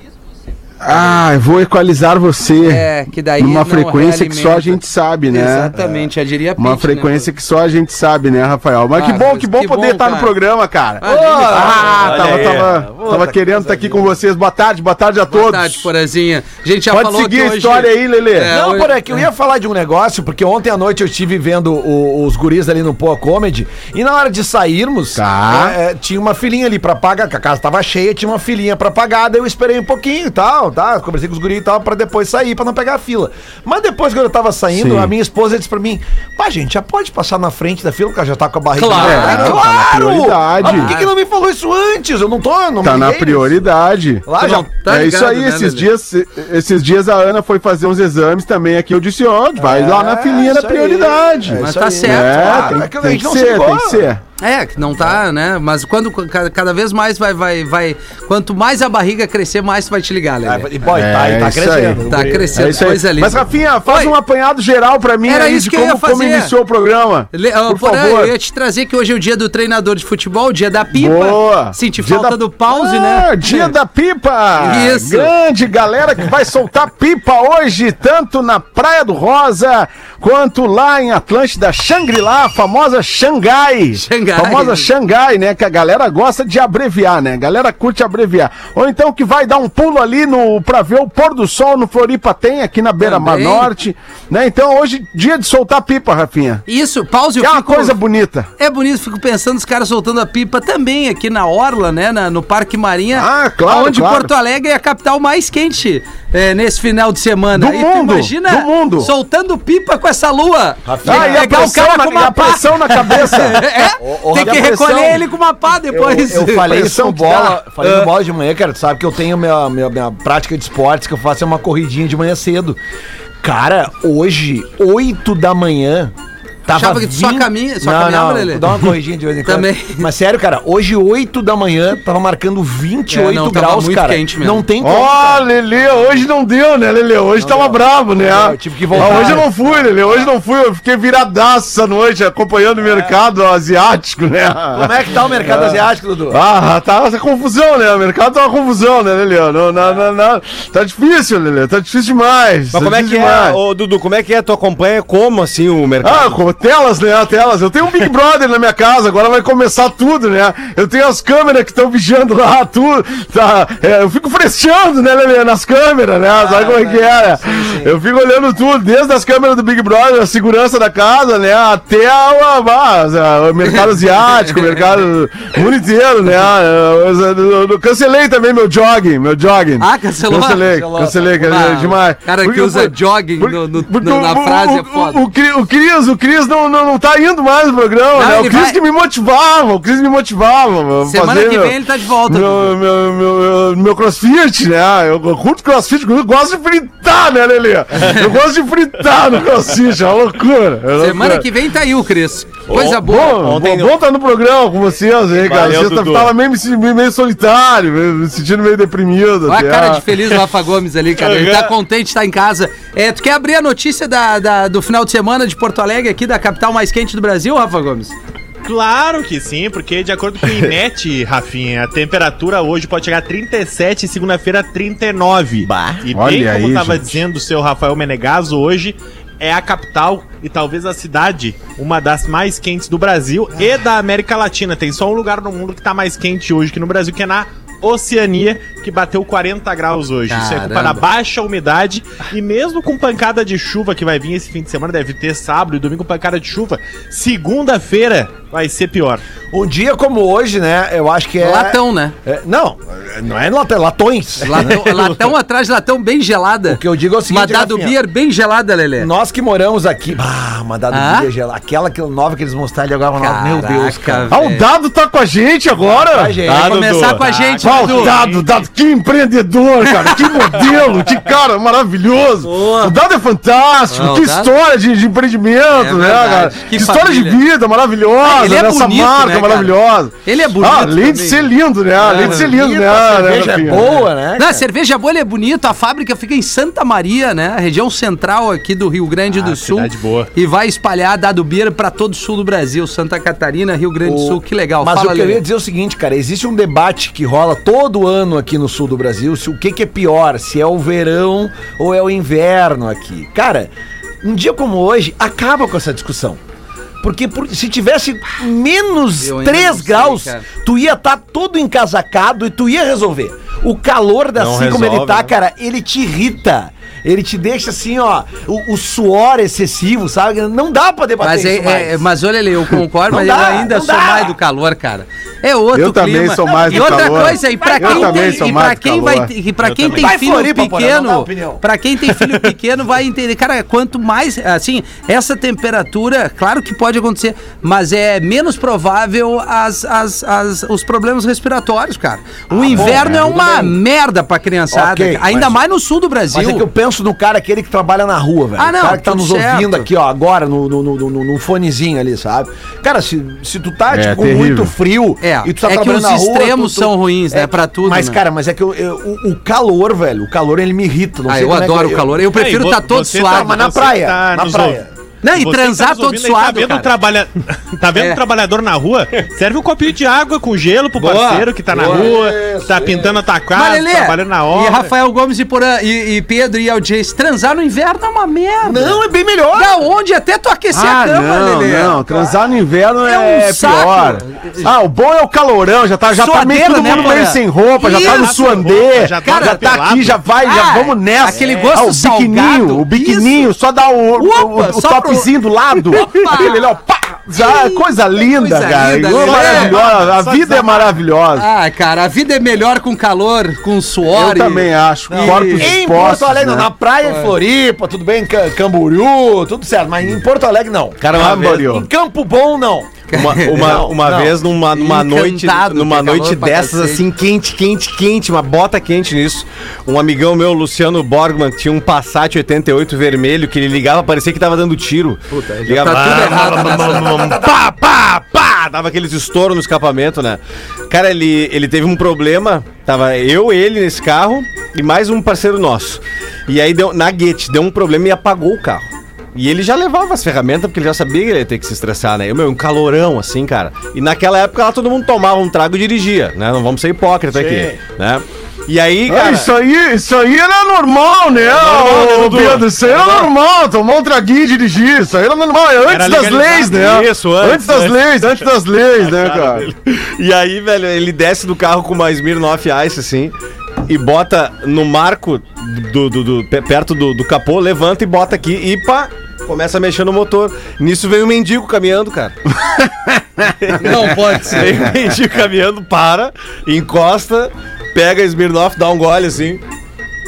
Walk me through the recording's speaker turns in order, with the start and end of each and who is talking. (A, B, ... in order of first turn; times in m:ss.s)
0:00.8-0:05.7 A
0:02.6-0:07.3 B
0:06.6-0:15.9 A
0:08.9-0:10.4 B
0:11.0-0:11.7 B
0:11.0-0:14.1 C
0:11.8-0:13.2 D
0:15.3-0:19.2 B
0:16.9-0:18.5 A
0:18.5-0:43.7 C
0:25.1-0:25.8 A
0:34.8-0:35.1 A
0:38.8-0:39.7 B
0:38.8-0:39.5 D
0:38.9-0:40.9 A
0:40.6-0:41.1 B
0:42.8-0:54.2 A
0:44.2-0:44.7 C
0:44.4-0:45.9 B
0:49.6-0:54.1 C
0:51.6-0:52.8 B
0:54.4-1:00.7 B
1:00.4-1:02.9 C
1:00.9-1:08.3 A
1:02.1-1:04.2 B
1:05.2-1:06.5 B
1:07.3-1:13.7 B
1:10.9-1:36.6 A
1:14.6-1:15.3 B
1:24.0-1:24.9 B
1:33.0-1:33.7 B
1:36.7-1:38.0 B
1:37.4-1:38.5 A
1:38.6-1:57.3 B
1:43.1-1:44.3 A
1:47.5-1:49.1 A
1:50.8-1:51.8 C
1:51.0-1:55.2 A
1:54.0-1:55.2 C
1:55.9-2:02.8 C
1:56.7-1:57.5 A
1:57.8-1:58.1 B
2:03.4-2:06.1 C
2:06.6-2:15.5 C
2:06.7-2:08.7 B
2:09.4-2:10.1 B
2:13.1-2:14.6 B
2:14.8-2:33.6 A
2:17.4-2:20.2 C
2:19.0-2:19.4 B
2:22.8-2:23.1 C
2:24.7-2:26.4 C
2:32.7-2:36.4 D
2:36.0-3:21.5 A
2:46.3-2:47.9 C
2:53.7-2:54.8 B
2:59.8-3:00.7 B
3:00.6-3:01.6 C
3:01.4-3:05.2 B
3:08.1-3:08.8 B
3:11.0-3:12.7 B
3:21.0-3:23.4 B
3:22.7-3:23.9 D
3:22.9-3:30.1 A
3:25.3-3:26.3 D
3:29.5-3:38.1 B
3:31.2-3:31.7 D
3:38.6-4:09.2 E
3:45.6-3:46.0 D
3:46.1-3:47.2 A
4:00.3-4:01.0 B
4:09.5-4:15.2 C
4:11.4-4:12.1 B
4:14.4-4:19.1 B
4:16.7-4:18.0 C
4:19.0-4:24.3 C
4:20.9-4:21.3 B
4:23.2-4:24.6 B
4:24.3-4:26.4 A
4:25.9-4:27.2 C
4:26.4-4:27.2 D
4:26.5-4:28.1 B
4:27.2-4:28.5 E
4:27.6-4:43.9 A
4:32.5-4:32.9 D
4:33.9-4:34.5 B
4:35.7-4:37.4 B
4:38.2-4:41.5 B
4:42.0-4:44.6 C
4:42.0-4:42.4 B
4:43.9-4:55.4 B
4:49.3-4:50.3 E
4:54.0-5:06.4 C
5:07.0-5:22.0 C
5:09.2-5:10.4 B
5:14.4-5:15.3 D
5:21.2-5:46.6 B
5:23.1-5:24.3 C
5:25.7-5:29.3 A
5:26.4-5:28.6 C
5:29.9-5:31.6 C
5:42.5-5:43.8 C
5:42.7-5:43.2 D
5:44.7-5:45.6 C
5:46.3-6:02.2 C
5:48.6-5:49.9 B
5:53.9-5:54.7 A
5:55.2-5:58.2 B
6:01.3-6:03.6 B
6:02.2-6:14.9 E
6:03.2-6:04.9 C
6:05.2-6:06.9 B
6:11.0-6:13.2 C
6:13.5-6:19.0 B
6:18.6-6:19.8 C
6:19.5-6:22.0 B
6:20.7-6:41.5 A
6:23.0-6:24.7 B
6:26.1-6:28.5 B
6:26.8-6:27.2 E
6:27.8-6:30.2 E
6:29.2-6:29.7 B
6:30.4-6:33.5 B
6:34.2-6:36.6 B
6:37.3-6:39.8 B
6:39.3-6:40.9 E
6:41.4-6:45.7 B
6:44.1-6:46.7 A
6:45.1-6:54.4 C
6:47.0-6:47.3 B
6:51.0-6:51.8 D
6:51.1-6:51.8 A
6:53.1-6:53.8 B
6:53.1-7:29.5 D
6:54.7-6:57.0 B
7:05.3-7:07.1 B
7:05.9-7:07.5 C
7:27.3-7:27.8 C
7:29.1-7:39.7 A
7:31.4-7:33.3 D
7:35.8-7:36.8 E
7:36.6-7:43.3 D
7:43.8-7:52.4 D
7:52.8-7:53.1 A
7:53.6-7:59.6 D
7:53.8-7:54.7 B